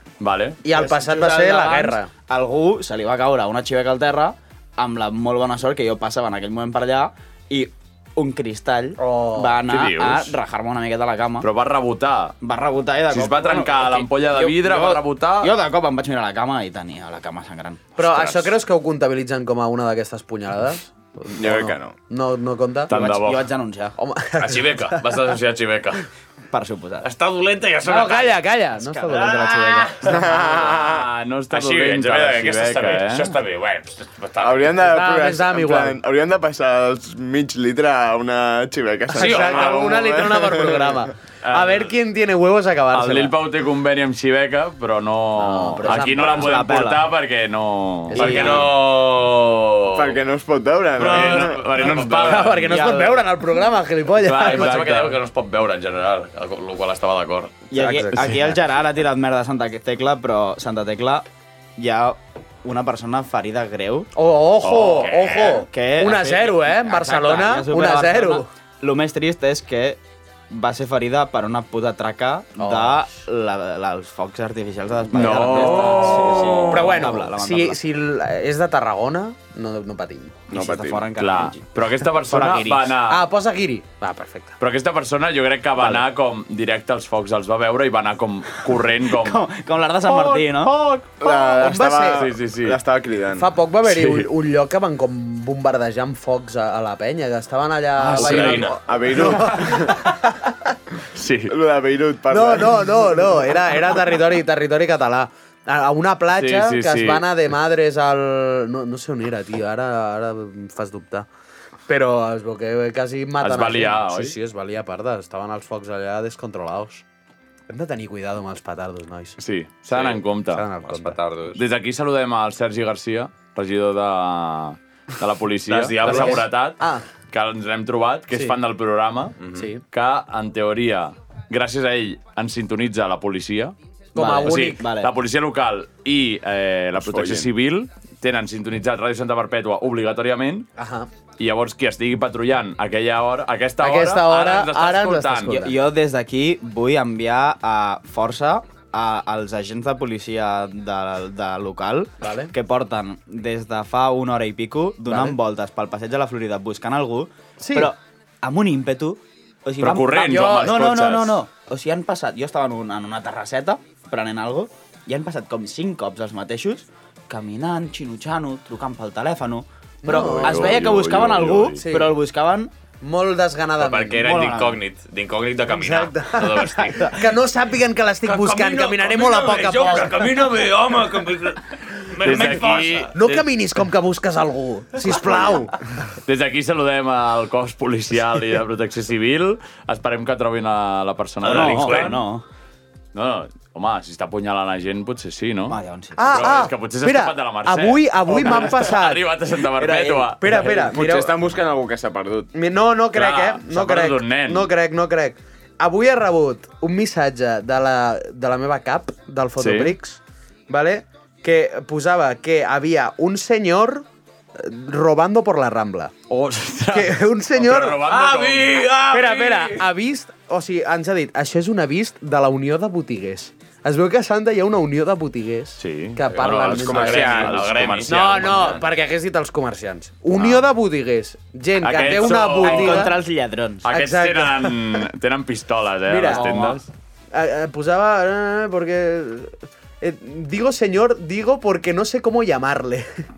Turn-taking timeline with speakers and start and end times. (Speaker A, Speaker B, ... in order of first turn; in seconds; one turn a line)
Speaker A: 0.2-0.6
Speaker B: 0.6-2.1
Speaker C: 0.7-11.5
Speaker B: 9.0-9.6
Speaker A: 9.7-10.3
Speaker A: 11.4-12.3
Speaker C: 12.4-17.8
Speaker A: 13.1-15.5
Speaker B: 18.0-22.9
Speaker A: 18.0-18.4
Speaker D: 21.4-21.9
Speaker A: 22.9-23.5
Speaker C: 22.9-23.9
Speaker B: 24.0-25.0
Speaker E: 24.4-26.1
Speaker C: 26.5-27.1
Speaker E: 27.0-28.4
Speaker B: 27.8-30.2
Speaker C: 28.8-29.5
Speaker E: 29.1-30.8
Speaker D: 30.0-30.8
Speaker A: 30.7-33.3
Speaker E: 31.5-34.8
Speaker D: 34.4-41.1
Speaker B: 34.8-36.0
Speaker B: 39.1-43.3
Speaker E: 39.1-40.0
Speaker A: 42.9-48.4
Speaker B: 45.4-46.6
Speaker C: 45.5-47.0
Speaker B: 48.1-48.7
Speaker E: 48.1-50.2
Speaker C: 48.1-48.7
Speaker D: 49.9-51.6
Speaker E: 51.0-52.6
Speaker A: 51.0-52.9
Speaker B: 52.1-54.9
Speaker C: 52.6-53.2
Speaker A: 54.2-55.2
Speaker E: 54.3-57.6
Speaker C: 57.7-61.2
Speaker B: 57.7-58.6
Speaker C: 61.8-64.1
Speaker B: 64.1-68.5
Speaker A: 64.6-65.1
Speaker E: 64.8-65.6
Speaker C: 65.7-70.0
Speaker C: 70.5-77.8
Speaker B: 72.6-73.0
Speaker A: 75.1-77.2
Speaker B: 75.2-76.1
Speaker B: 76.6-80.4
Speaker D: 80.5-81.1
Speaker C: 80.5-81.7
Speaker A: 81.2-83.2
Speaker B: 82.2-84.5
Speaker A: 84.6-89.4
Speaker C: 85.8-86.0
Speaker C: 89.0-90.8
Speaker B: 90.1-92.2
Speaker D: 91.2-93.5
Speaker A: 92.1-92.8
Speaker B: 93.3-100.7
Speaker A: 93.8-94.3
Speaker A: 98.0-99.8
Speaker E: 98.0-98.8
Speaker D: 98.8-99.9
Speaker A: 101.1-101.5
Speaker D: 101.5-103.4
Speaker B: 102.3-111.3
Speaker A: 106.3-107.3
Speaker B: 111.9-117.0
Speaker A: 113.4-114.3
Speaker B: 117.7-119.4
Speaker A: 119.4-120.7
Speaker E: 119.9-120.2
Speaker B: 120.0-121.2
Speaker E: 120.8-121.6
Speaker A: 121.5-129.4
Speaker E: 125.7-126.4
Speaker B: 126.0-127.0
Speaker E: 129.4-129.7
Speaker B: 129.5-129.8
Speaker A: 129.9-133.7
Speaker B: 134.1-134.8
Speaker C: 134.1-135.1
Speaker A: 134.4-140.7
Speaker D: 137.0-137.5
Speaker B: 140.8-141.1
Speaker A: 141.4-145.6
Speaker B: 143.8-145.8
Speaker C: 145.5-172.7
Speaker B: 152.2-152.5
Speaker B: 155.1-155.3
Speaker B: 157.6-157.9
Speaker A: 159.8-161.4
Speaker B: 160.2-161.0
Speaker B: 170.0-170.8
Speaker A: 170.1-171.8
Speaker B: 171.8-172.2
Speaker B: 173.0-174.6
Speaker E: 173.8-177.3
Speaker C: 174.2-174.8
Speaker B: 175.6-180.5
Speaker E: 178.2-183.2
Speaker A: 182.2-183.4
Speaker B: 183.1-185.8
Speaker D: 185.1-185.7
Speaker A: 186.2-192.2
Speaker E: 191.4-192.2
Speaker C: 191.4-192.4
Speaker A: 193.1-200.7
Speaker C: 195.7-196.6
Speaker B: 196.2-201.4
Speaker D: 200.5-202.5
Speaker B: 202.5-214.1
Speaker A: 203.1-204.7
Speaker A: 209.6-209.9
Speaker B: 214.6-216.2
Speaker A: 216.3-219.0
Speaker B: 216.9-218.0
Speaker E: 218.0-219.7
Speaker B: 219.1-233.2
Speaker A: 225.8-228.8
Speaker D: 226.6-227.8
Speaker E: 226.7-228.8
Speaker A: 230.3-230.7
Speaker A: 231.8-233.1
Speaker C: 232.6-233.8
Speaker A: 233.8-236.9
Speaker B: 233.9-235.0
Speaker B: 236.1-236.7
Speaker C: 236.3-236.8
Speaker B: 237.3-243.1